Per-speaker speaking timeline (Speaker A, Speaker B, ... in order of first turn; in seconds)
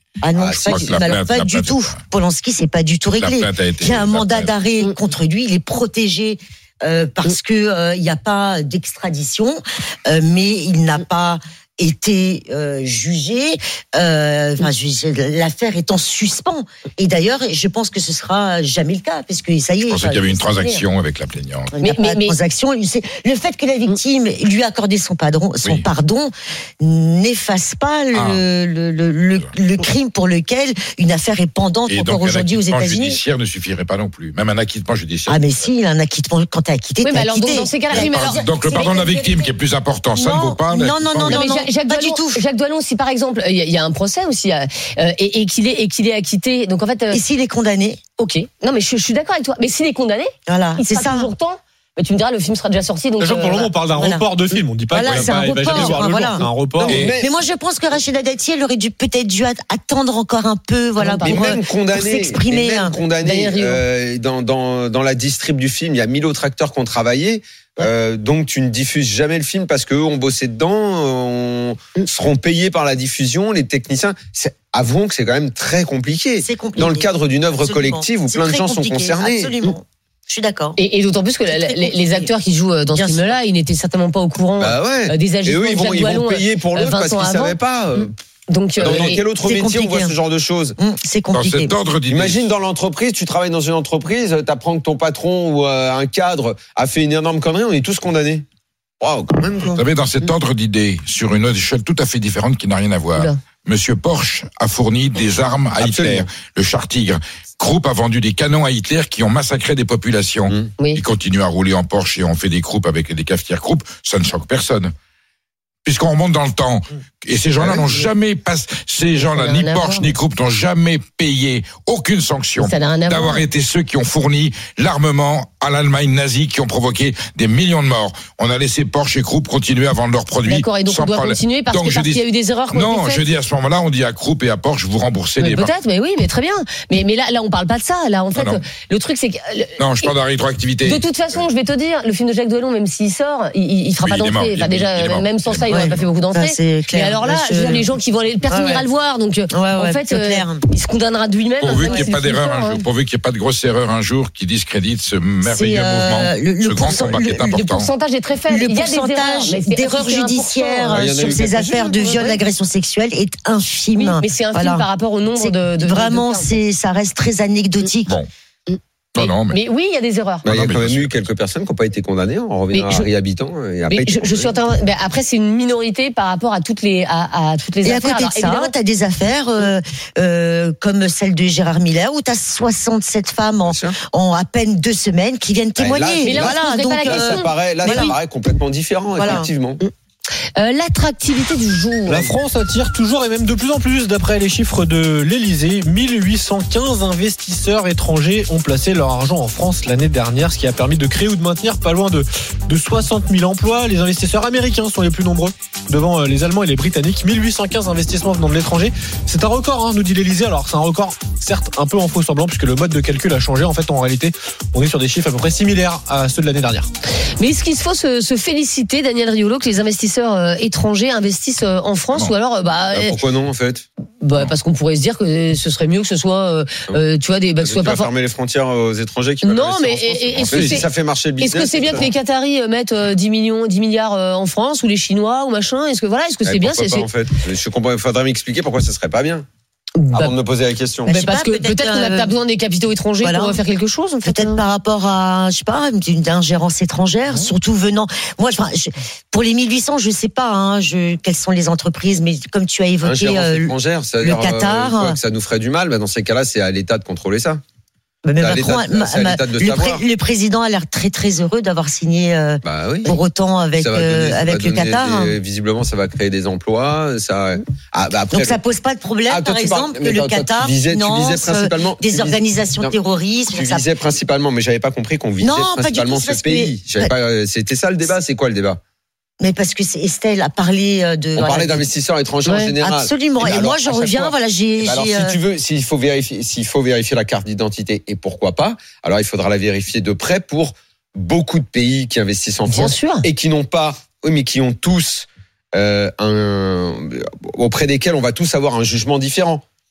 Speaker A: 0.2-20.8, 21.7-33.2, 35.2-39.5, 40.1-42.4, 47.1-48.0, 50.5-51.3, 53.9-54.2, 54.9-56.5, 57.1-63.0, 76.4-80.8, 81.5-82.3, 82.9-83.3, 88.8-90.1, 90.8-91.7, 145.7-147.9, 148.5-148.8, 149.5-150.6, 151.8-152.1, 155.4-157.5, 158.5-164.9, 165.4-168.1, 177.8-188.2, 189.2-189.5, 241.1-242.3, 243.2-243.6, 244.2-255.2, 258.2-265.4, 268.3-273.9, 275.4-277.1, 279.4-281.9, 282.8-285.4
Speaker B: 0.3-1.1, 55.7-57.4, 61.2-79.5, 84.6-88.1, 88.8-90.8, 92.1-98.4, 99.0-99.8, 105.8-106.3, 117.6-118.1, 160.9-162.3, 170.4-174.6, 183.6-184.0, 185.8-189.8, 222.9-223.8, 227.6-232.1, 236.4-239.5, 240.1-241.1, 253.0-257.6, 258.4-260.0, 262.6-263.2, 263.8-268.6, 269.3-272.9, 273.5-278.8, 281.3-299.6
Speaker C: 0.6-2.0, 3.1-4.5, 19.9-21.8, 28.1-28.4, 31.9-35.5, 37.9-41.4, 55.0-56.1, 56.8-57.2, 91.3-92.5, 99.7-114.9, 115.8-135.7, 138.3-138.6, 139.8-141.4, 144.0-146.1, 151.6-157.9, 169.2-169.6, 170.4-171.2, 230.3-230.9
Speaker D: 21.8-22.4, 37.0-39.1, 41.3-47.2, 48.2-53.7, 61.0-61.6, 63.2-63.8, 80.8-89.2, 119.2-120.1, 122.6-123.4, 130.4-133.2, 135.4-140.1, 140.8-152.8, 157.5-161.5, 162.0-162.4, 164.0-166.5, 168.7-170.4, 172.7-173.1, 173.9-178.7, 186.2-188.2, 190.6-192.3, 217.4-223.2, 224.2-228.1, 229.4-230.9, 231.4-237.1, 240.0-240.3, 241.1-244.6, 282.4-282.7, 292.7-293.3
Speaker E: 53.2-57.1, 192.1-216.9